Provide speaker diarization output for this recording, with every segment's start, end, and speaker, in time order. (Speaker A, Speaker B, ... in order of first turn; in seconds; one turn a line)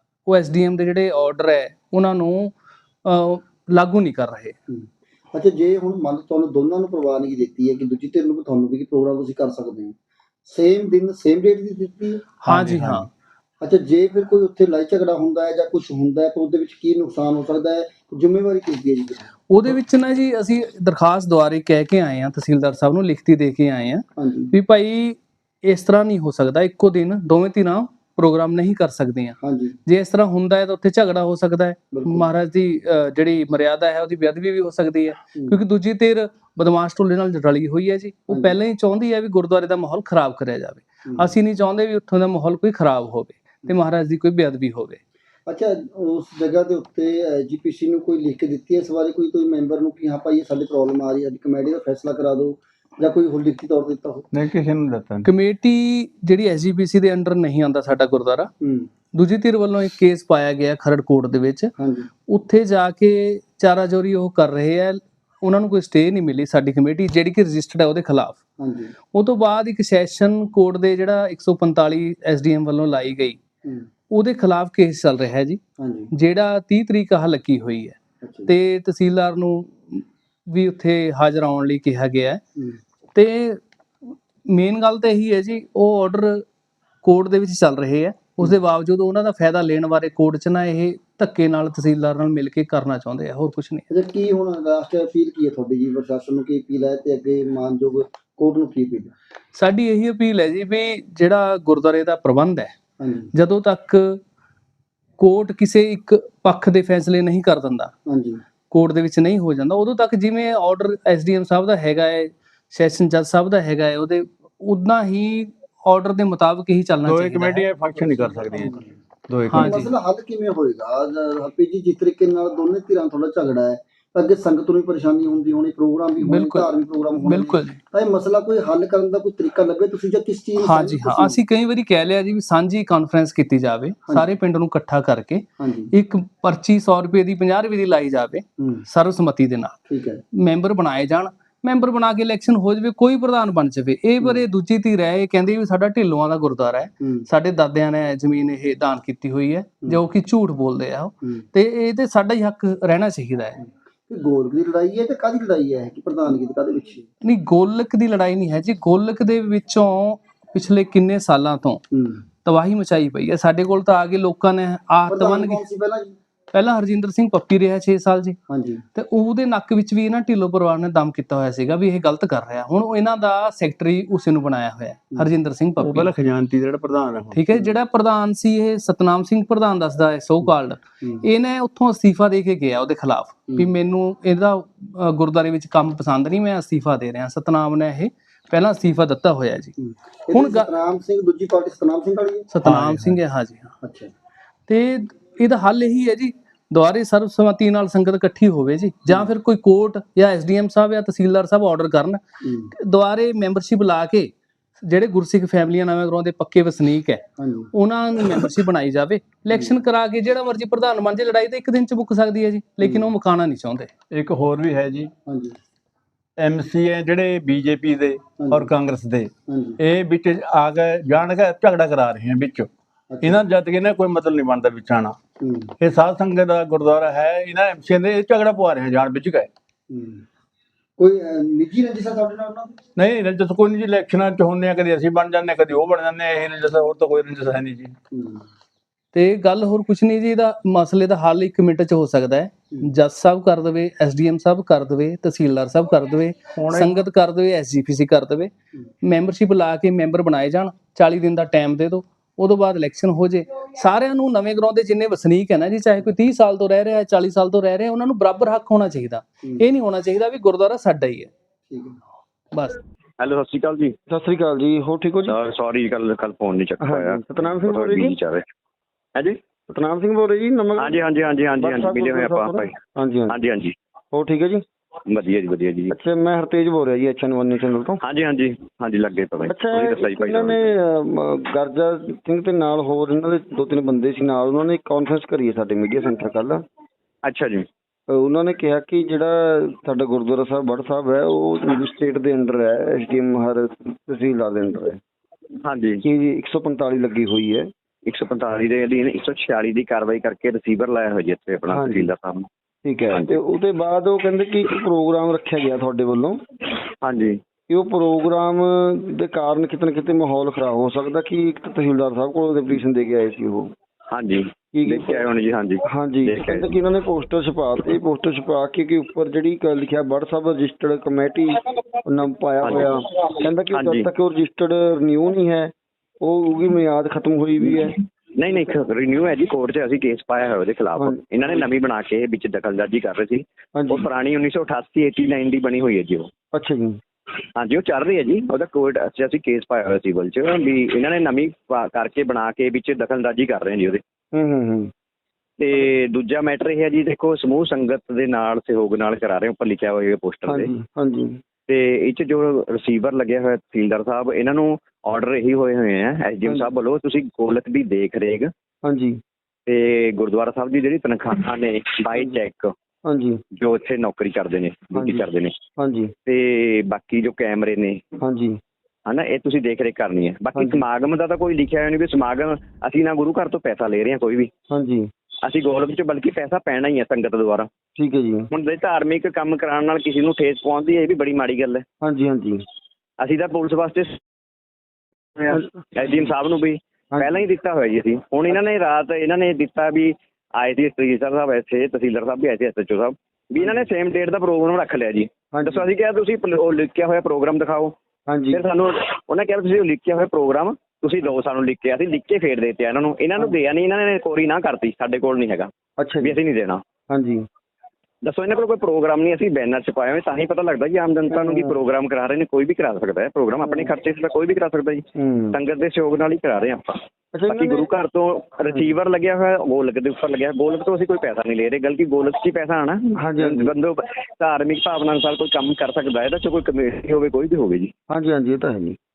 Speaker A: 0.3-4.5
Speaker B: 4.7-9.9
Speaker B: 10.5-12.2
Speaker A: 12.4-13.1
Speaker C: 12.5-13.0
Speaker B: 13.6-19.3
Speaker A: 19.5-45.0
Speaker B: 24.2-24.5
Speaker B: 29.4-29.8
Speaker B: 31.9-32.3
Speaker B: 38.3-38.6
Speaker B: 41.1-41.4
Speaker B: 45.5-54.3
Speaker C: 54.3-55.3
Speaker A: 55.2-58.5
Speaker B: 58.6-58.9
Speaker A: 59.1-61.7
Speaker B: 61.8-62.1
Speaker A: 62.3-68.4
Speaker B: 68.6-68.9
Speaker A: 69.1-73.4
Speaker A: 74.1-82.4
Speaker B: 75.8-76.1
Speaker B: 78.2-78.5
Speaker A: 83.2-86.5
Speaker A: 87.0-93.9
Speaker B: 93.9-99.1
Speaker A: 99.5-102.7
Speaker B: 103.0-103.3
Speaker A: 103.3-104.2
Speaker A: 105.2-107.9
Speaker B: 108.1-108.4
Speaker A: 108.7-117.7
Speaker C: 117.0-119.9
Speaker B: 118.5-118.9
Speaker B: 119.5-131.4
Speaker A: 119.5-119.9
Speaker A: 126.2-127.8
Speaker A: 130.6-139.8
Speaker B: 134.1-134.3
Speaker B: 135.6-135.9
Speaker B: 138.6-138.8
Speaker B: 139.9-140.2
Speaker A: 140.4-153.6
Speaker B: 147.0-147.3
Speaker B: 154.1-157.1
Speaker A: 157.2-161.8
Speaker B: 161.9-162.2
Speaker A: 162.4-165.7
Speaker B: 165.1-166.2
Speaker A: 166.5-168.4
Speaker B: 168.5-168.8
Speaker A: 168.9-176.1
Speaker C: 175.8-177.5
Speaker A: 177.3-189.7
Speaker B: 189.8-192.5
Speaker A: 190.3-190.7
Speaker A: 192.5-193.7
Speaker C: 192.6-193.2
Speaker B: 193.8-194.1
Speaker A: 194.7-202.2
Speaker B: 202.4-202.7
Speaker A: 202.7-213.9
Speaker B: 207.4-207.7
Speaker B: 209.5-209.8
Speaker B: 212.8-213.1
Speaker C: 214.1-215.1
Speaker B: 215.3-215.6
Speaker C: 216.4-222.7
Speaker B: 218.4-218.7
Speaker B: 219.5-219.8
Speaker B: 223.1-223.4
Speaker C: 223.2-225.2
Speaker B: 225.4-225.7
Speaker C: 225.8-229.5
Speaker B: 229.9-230.2
Speaker B: 231.0-232.8
Speaker C: 233.0-238.0
Speaker B: 238.1-238.5
Speaker A: 239.1-248.5
Speaker C: 246.5-246.9
Speaker A: 249.0-261.3
Speaker B: 261.7-262.0
Speaker A: 262.5-262.8
Speaker D: 263.2-263.9
Speaker E: 264.1-265.4
Speaker D: 265.3-268.4
Speaker E: 266.8-268.2
Speaker E: 269.7-273.4
Speaker D: 270.8-272.8
Speaker D: 273.3-273.7
Speaker E: 274.1-274.6
Speaker D: 275.1-275.9
Speaker E: 275.9-278.0
Speaker D: 278.0-280.6
Speaker E: 279.5-286.6
Speaker D: 287.2-287.7
Speaker E: 288.1-295.0
Speaker D: 295.6-296.0
Speaker E: 296.0-297.7
Speaker D: 298.1-302.5
Speaker E: 301.7-302.1
Speaker E: 302.9-306.4
Speaker D: 303.1-303.4
Speaker D: 307.0-307.4
Speaker E: 307.7-313.7
Speaker D: 314.1-316.8
Speaker E: 314.7-315.3
Speaker E: 315.9-328.0
Speaker D: 322.6-323.0
Speaker D: 323.7-324.1
Speaker D: 328.4-336.3
Speaker E: 331.0-331.6
Speaker E: 333.8-334.1
Speaker E: 336.5-337.0
Speaker D: 337.6-344.0
Speaker E: 344.3-344.9
Speaker D: 345.6-350.7
Speaker E: 350.5-351.4
Speaker D: 351.7-358.5
Speaker E: 358.8-359.2
Speaker D: 359.7-362.7
Speaker E: 363.1-363.4
Speaker D: 363.5-365.6
Speaker E: 364.9-366.1
Speaker D: 366.3-368.0
Speaker E: 368.2-368.6
Speaker D: 369.1-374.5
Speaker E: 370.6-370.8
Speaker E: 374.7-375.1
Speaker D: 375.4-377.7
Speaker E: 378.0-378.5
Speaker D: 378.5-381.9
Speaker E: 382.0-382.6
Speaker D: 383.2-384.2
Speaker D: 385.4-397.9
Speaker E: 387.1-387.5
Speaker E: 393.6-393.9
Speaker E: 395.5-395.9
Speaker E: 398.3-398.6
Speaker D: 398.5-406.8
Speaker E: 406.0-406.4
Speaker E: 407.1-407.5
Speaker D: 408.2-427.9
Speaker E: 411.3-411.7
Speaker E: 413.6-413.9
Speaker E: 415.2-415.6
Speaker E: 417.3-417.9
Speaker E: 423.2-423.7
Speaker E: 428.1-429.0